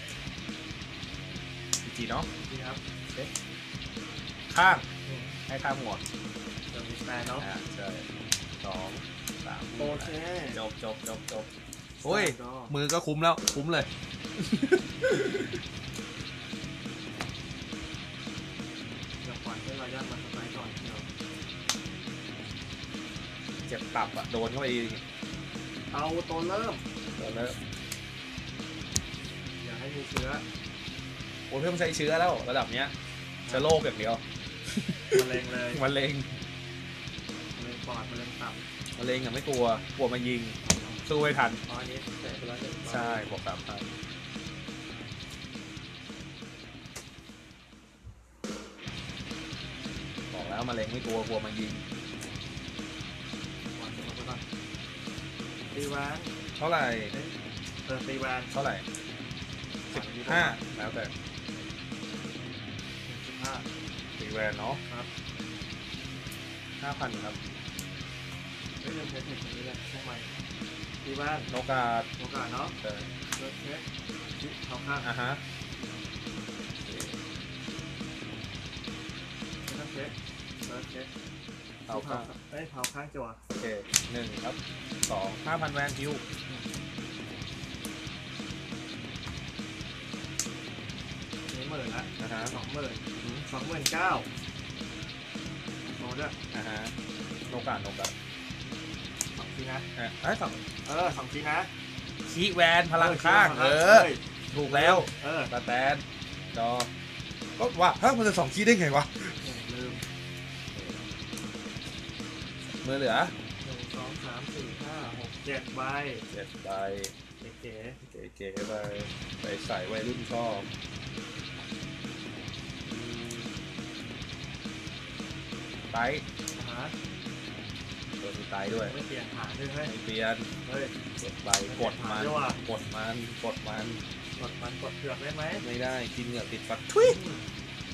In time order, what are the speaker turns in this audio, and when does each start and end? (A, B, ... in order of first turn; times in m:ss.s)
0:01.8-0:02.3 A
0:02.4-0:02.8 B
0:03.0-0:03.3 A
0:04.5-0:04.9 A
0:05.0-0:05.4 B
0:05.5-0:06.0 A
0:06.7-0:07.5 B
0:07.4-0:08.0 A
0:08.6-0:11.5 A
0:09.8-0:10.6 B
0:12.0-0:12.7 B
0:12.0-0:15.6 A
0:19.2-0:21.0 B
0:23.7-0:25.0 A
0:25.9-0:26.8 B
0:27.2-0:27.6 A
0:29.6-0:30.4 B
0:31.5-0:32.9 A
0:33.4-0:33.7 B
0:33.5-0:36.4 A
0:35.1-0:35.8 B
0:37.5-0:38.6 B
0:39.0-0:41.6 A
0:41.6-0:43.2 B
0:42.4-0:44.0 A
0:50.3-0:51.8 A
0:53.7-0:54.4 B
0:55.7-0:56.4 B
0:56.6-0:57.1 A
0:57.1-0:57.3 B
0:57.8-0:58.5 B
0:58.5-0:58.8 A
0:59.9-1:01.1 A
0:59.9-1:00.6 B
1:03.1-1:03.6 B
1:04.2-1:04.8 A
1:06.8-1:07.4 A
1:08.8-1:10.3 B
1:11.0-1:11.5 B
1:11.5-1:12.1 A
1:12.2-1:12.8 B
1:12.8-1:13.1 A
1:13.3-1:13.8 B
1:14.4-1:15.1 B
1:15.0-1:15.4 A
1:16.8-1:17.2 A
1:19.6-1:21.1 B
1:21.9-1:22.3 A
1:21.9-1:23.4 B
1:23.5-1:26.2 A
1:26.5-1:26.7 B
1:31.5-1:34.3 B
1:32.2-1:32.5 A
1:35.8-1:36.4 B
1:36.5-1:36.9 A
1:37.5-1:38.1 A
1:39.3-1:39.9 B
1:40.0-1:40.6 A
1:40.8-1:41.7 B
1:42.3-1:46.0 A
1:43.0-1:45.5 B
1:46.5-1:46.9 A
1:47.6-1:49.5 A
1:49.4-1:50.0 B
1:50.7-1:51.1 A
1:52.6-1:53.3 A
1:53.6-1:56.2 B
1:56.3-1:57.1 A
1:57.4-1:58.0 B
1:58.0-2:00.7 A
2:02.8-2:03.5 A
2:05.9-2:06.2 A
2:06.5-2:06.9 B
2:08.2-2:09.0 A
2:08.6-2:09.9 B
2:09.8-2:10.5 A
2:10.6-2:10.9 B
2:11.2-2:14.0 A
2:11.6-2:12.6 B
2:14.4-2:15.6 B
2:15.6-2:17.2 A
2:17.0-2:17.4 B